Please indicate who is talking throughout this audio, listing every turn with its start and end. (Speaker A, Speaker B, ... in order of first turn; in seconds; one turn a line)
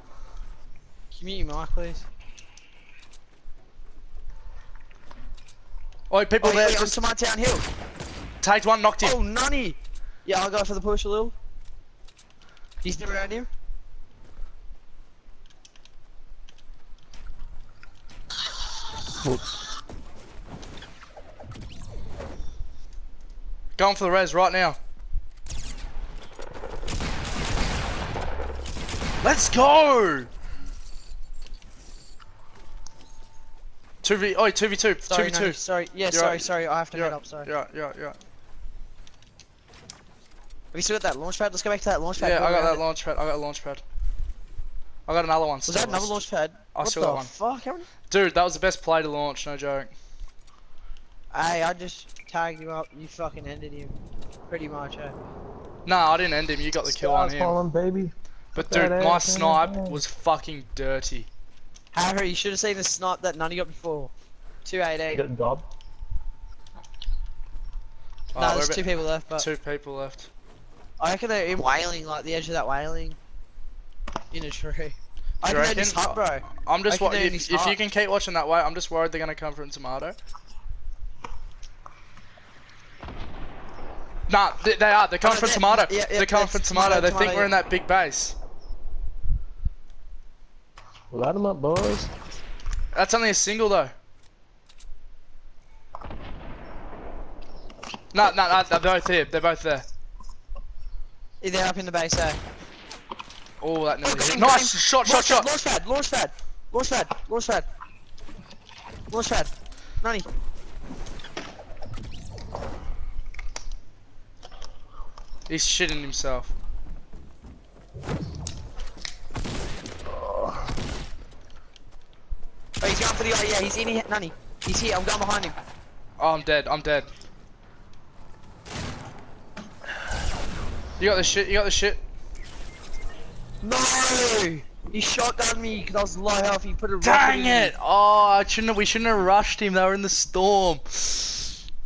Speaker A: 1.1-2.0
Speaker B: 6.1-7.0
Speaker A: 6.4-7.6
Speaker B: 8.4-9.2
Speaker A: 9.0-11.3
Speaker A: 12.8-13.5
Speaker B: 23.8-24.8
Speaker B: 29.2-30.3
Speaker B: 34.0-38.2
Speaker A: 35.1-37.5
Speaker A: 40.7-42.8
Speaker B: 42.2-43.8
Speaker B: 45.1-46.2
Speaker A: 45.6-47.9
Speaker B: 46.7-47.3
Speaker B: 48.1-49.9
Speaker A: 51.3-53.9
Speaker A: 54.5-55.1
Speaker B: 55.9-57.6
Speaker C: 56.9-60.0
Speaker B: 58.5-61.3
Speaker A: 61.9-64.1
Speaker A: 64.6-65.2
Speaker C: 65.1-65.7
Speaker B: 68.3-70.3
Speaker A: 68.3-69.5
Speaker A: 71.0-73.2
Speaker A: 74.3-77.8
Speaker B: 75.4-80.2
Speaker B: 84.3-88.3
Speaker A: 85.2-87.5
Speaker C: 91.1-92.1
Speaker B: 92.9-93.9
Speaker B: 98.1-99.8
Speaker A: 101.4-102.4
Speaker B: 103.6-105.5
Speaker A: 104.0-107.7
Speaker A: 109.1-110.3
Speaker B: 115.5-116.5
Speaker A: 122.8-125.5
Speaker B: 126.2-127.1
Speaker B: 131.0-132.0
Speaker A: 133.6-137.7
Speaker B: 137.0-141.4